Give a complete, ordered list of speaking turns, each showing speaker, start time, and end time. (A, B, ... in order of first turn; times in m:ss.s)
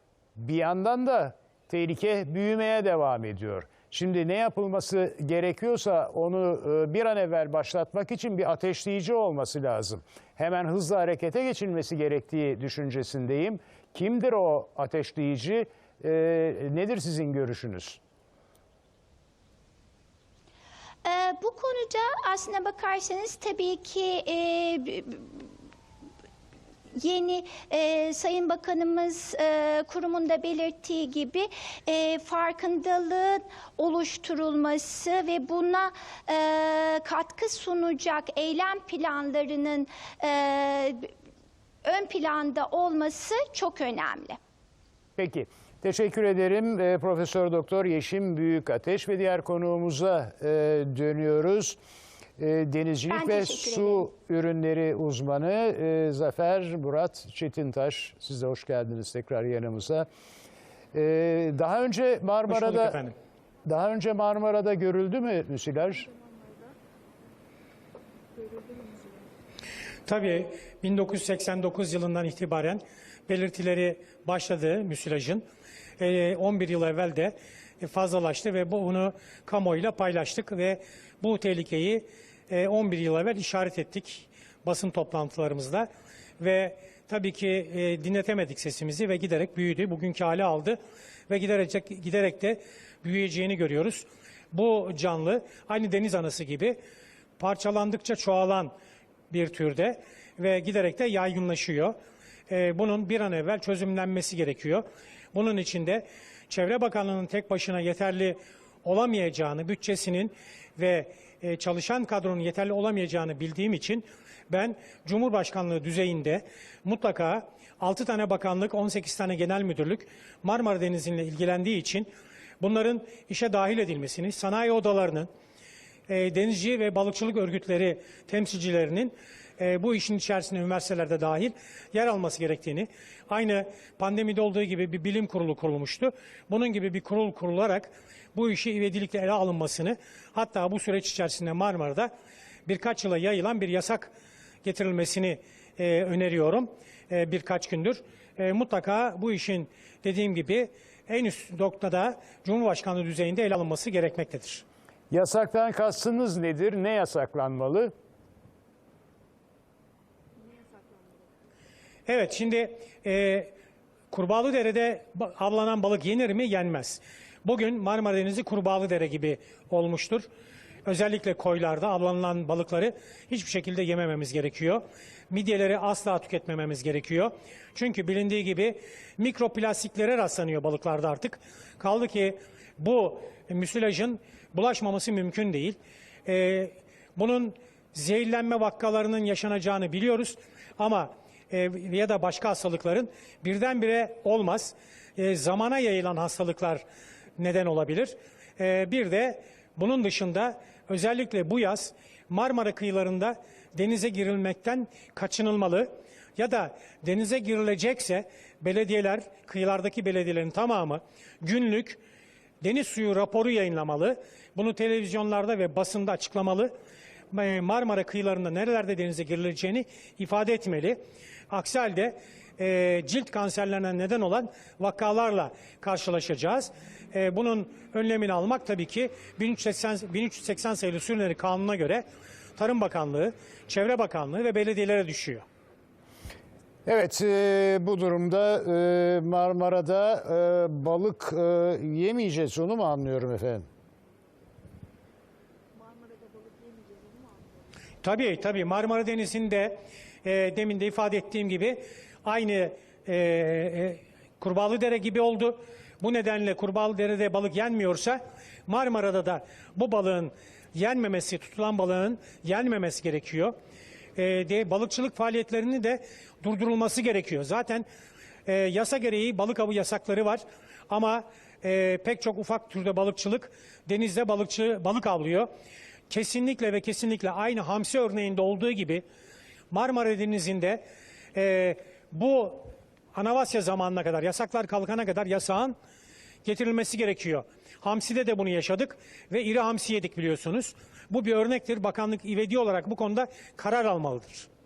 0:00.4-0:18.0 A
0:21.0-0:25.4 B
0:27.0-0:41.1 B
0:41.8-0:44.4 B
0:45.2-0:51.8 A
0:52.4-1:00.0 A
0:53.1-0:54.0 B
1:00.9-1:03.0 A
1:02.5-1:03.1 C
1:03.6-1:06.1 A
1:08.4-1:09.1 B
1:10.1-1:15.4 C
1:16.0-1:25.9 C
1:26.4-1:36.8 C
1:37.4-1:38.7 C
1:39.3-1:41.9 C
1:42.5-2:02.1 C
2:02.6-2:05.3 C
2:06.1-2:22.1 C
2:22.7-2:24.1 C
2:24.6-2:34.6 C
2:35.1-2:37.9 A
2:42.1-2:43.5 C
2:44.1-2:50.3 C
2:50.8-3:16.8 C
3:17.4-3:32.0 C
3:32.6-3:36.7 C
3:37.3-3:41.0 C
3:41.5-3:52.0 C
3:52.6-3:55.4 C
3:56.8-4:03.6 A
4:06.5-4:07.0 B
4:08.0-4:23.5 C
4:24.2-4:27.8 C
4:28.4-4:35.5 C
4:36.1-4:39.0 C
4:39.7-4:40.8 C
4:41.3-4:45.7 C
4:46.4-4:54.5 C